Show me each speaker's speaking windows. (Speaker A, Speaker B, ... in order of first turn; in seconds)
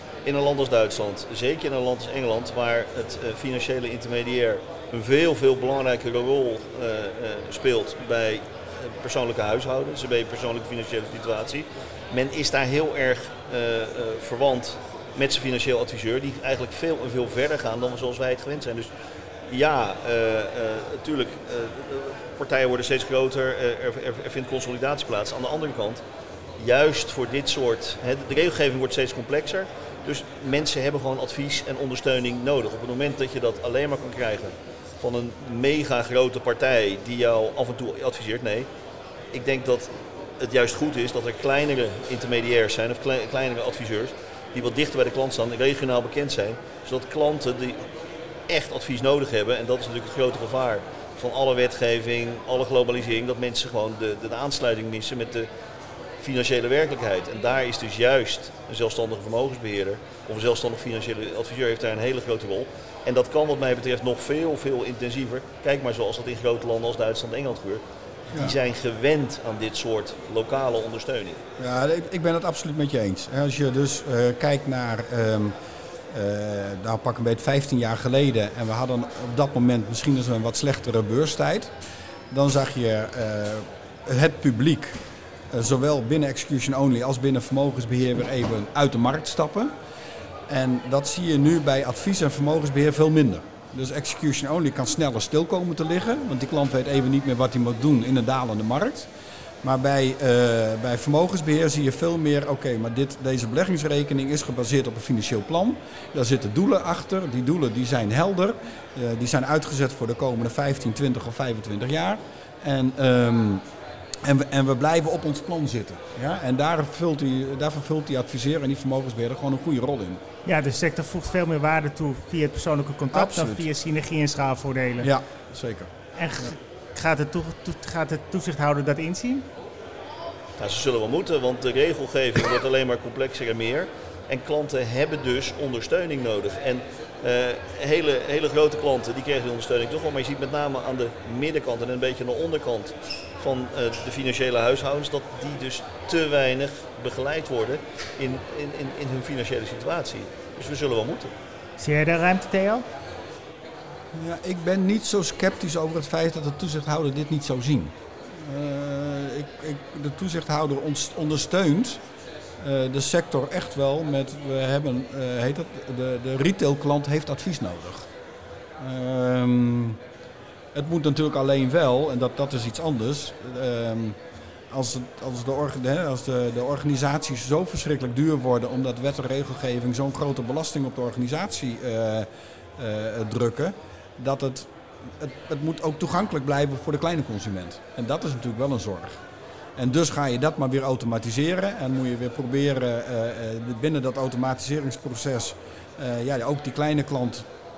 Speaker A: 0.2-18.9, 19.5-26.0, 26.6-38.7, 39.3-47.9, 48.5-55.5, 56.2-71.4, 130.6-151.3
Speaker B: 71.6-75.5, 76.1-81.7, 82.3-85.0, 85.5-89.7, 90.5-99.1, 99.6-113.6, 114.2-120.2, 123.1-123.7, 125.0-125.9, 154.1-162.0, 162.6-168.1, 168.8-170.0, 170.7-174.2, 174.7-189.2, 189.8-197.4
Speaker C: 120.4-125.1, 126.2-129.5, 151.8-152.8